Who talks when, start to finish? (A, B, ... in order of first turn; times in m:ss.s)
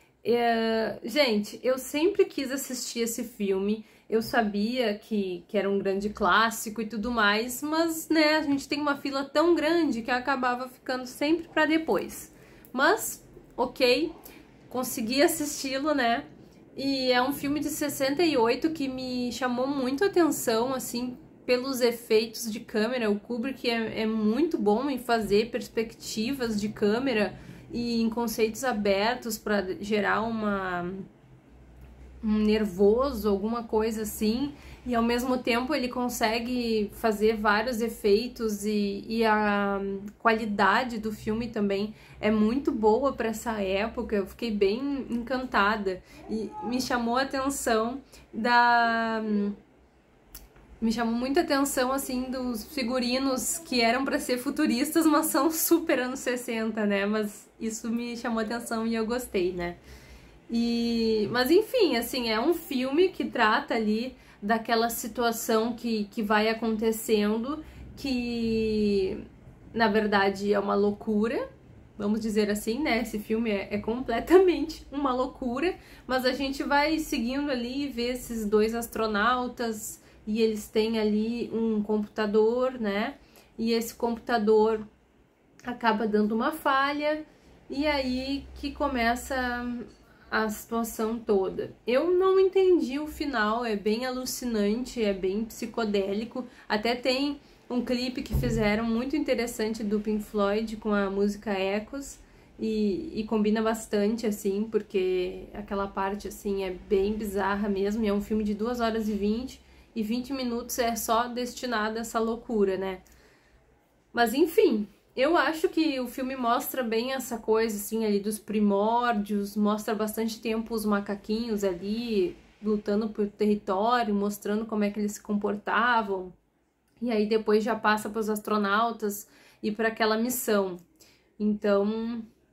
0:00.2-0:14.1 A
0:14.7-0:31.1 A
0:32.2-0:49.6 A
0:50.8-0:59.8 A
1:00.5-1:11.4 A
1:12.0-1:24.9 A
1:25.6-1:53.0 A
1:54.1-2:06.4 A
2:07.0-2:10.8 A
2:11.4-2:12.3 A